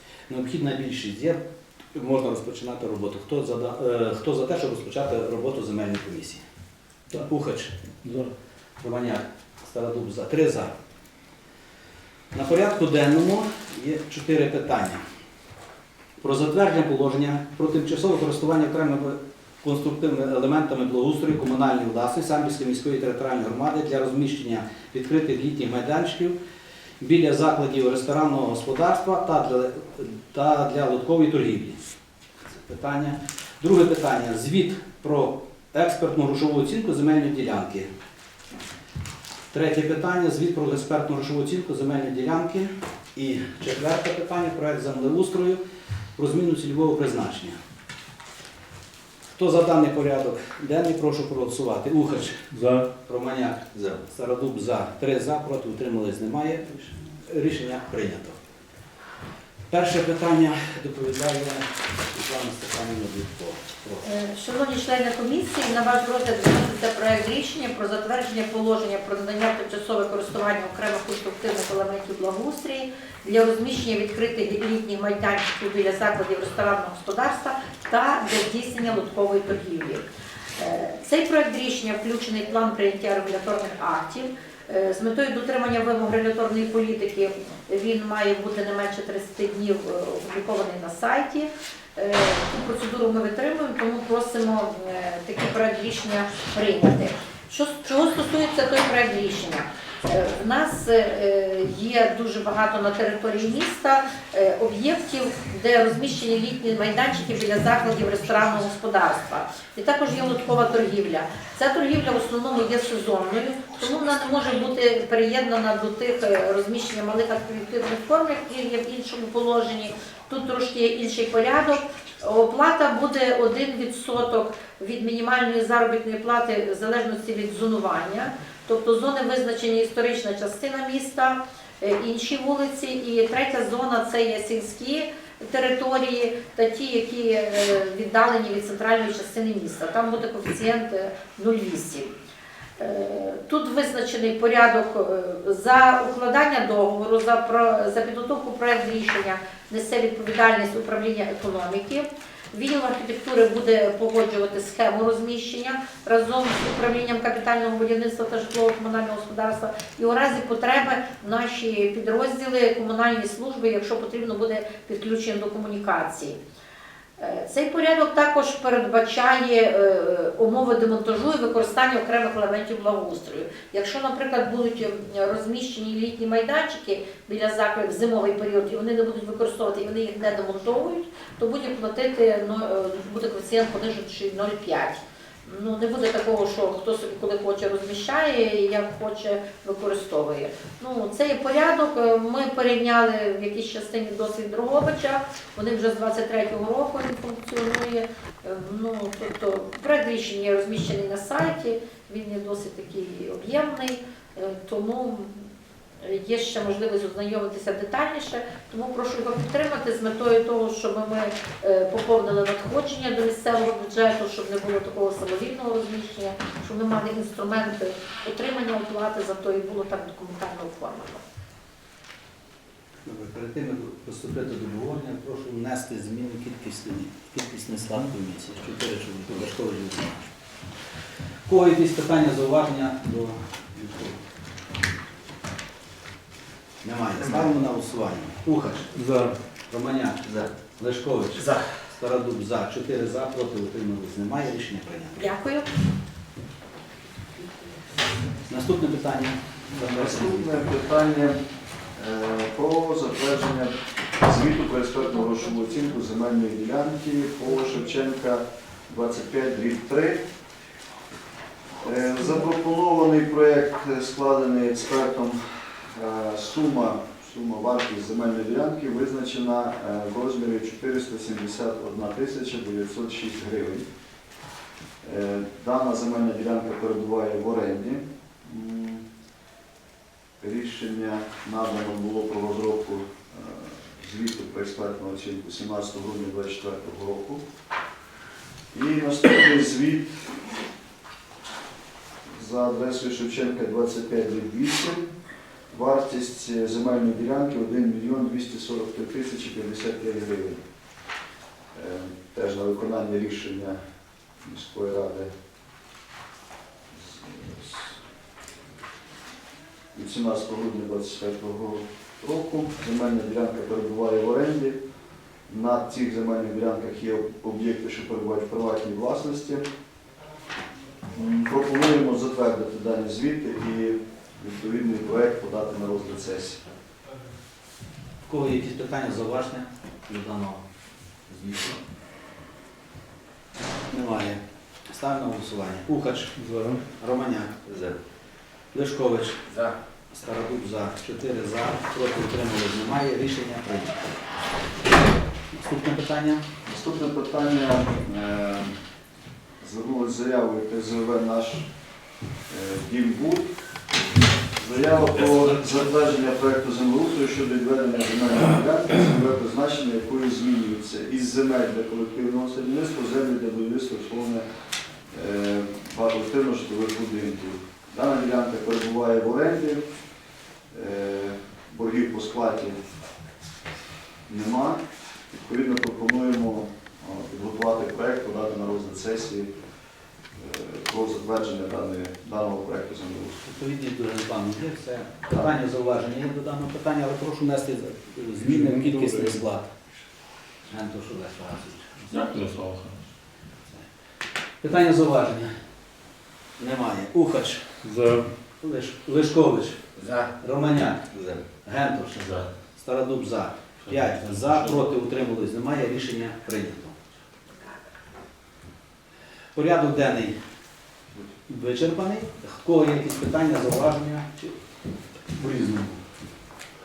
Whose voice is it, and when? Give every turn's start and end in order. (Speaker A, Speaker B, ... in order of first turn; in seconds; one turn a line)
Speaker A: 0.3-1.4
Speaker A: 1.9-6.4
Speaker A: 7.1-7.7
Speaker B: 8.0-8.3
Speaker A: 8.8-10.7
Speaker A: 12.3-15.0
Speaker A: 16.2-26.4
Speaker A: 27.0-31.8
Speaker A: 32.5-37.9
Speaker A: 39.5-45.6
Speaker A: 46.2-47.6
Speaker A: 49.4-52.5
Speaker A: 53.0-58.4
Speaker A: 59.7-64.0
Speaker C: 64.0-80.0
Speaker C: 80.6-142.1
Speaker C: 142.8-166.4
Speaker C: 167.2-205.5
Speaker C: 206.0-221.2
Speaker A: 223.0-230.2
Speaker A: 231.5-234.2
Speaker A: 236.8-245.3
Speaker C: 245.2-245.7
Speaker A: 248.5-250.5
Speaker D: 249.9-251.4
Speaker D: 251.9-260.2
Speaker C: 255.3-255.8
Speaker D: 261.8-273.8
Speaker D: 275.0-279.0
Speaker D: 280.4-287.4
Speaker D: 288.7-290.2
Speaker D: 292.3-295.1
Speaker D: 295.7-300.6
Speaker D: 301.7-303.8
Speaker D: 304.4-305.3
Speaker D: 306.9-308.0
Speaker D: 309.9-314.8
Speaker D: 315.5-319.6
Speaker D: 321.1-326.6
Speaker A: 328.2-330.6
Speaker A: 331.3-331.8
Speaker A: 333.9-336.4
Speaker A: 337.0-337.9
Speaker A: 338.7-339.6
Speaker A: 340.1-344.1
Speaker A: 345.5-346.4
Speaker D: 346.6-348.7
Speaker D: 349.6-351.7
Speaker D: 352.5-353.5
Speaker D: 354.6-364.4
Speaker D: 365.1-369.8
Speaker D: 370.7-372.8
Speaker D: 374.3-374.8
Speaker D: 375.3-379.5
Speaker D: 380.4-383.4
Speaker A: 383.4-389.7
Speaker B: 388.4-389.4
Speaker A: 390.7-392.1
Speaker B: 392.1-393.0
Speaker A: 394.6-395.5
Speaker A: 396.6-397.7
Speaker B: 397.8-398.3
Speaker A: 398.6-407.0
Speaker B: 400.0-400.2
Speaker B: 403.9-404.7
Speaker A: 409.5-410.3
Speaker A: 411.5-414.5
Speaker A: 415.3-416.0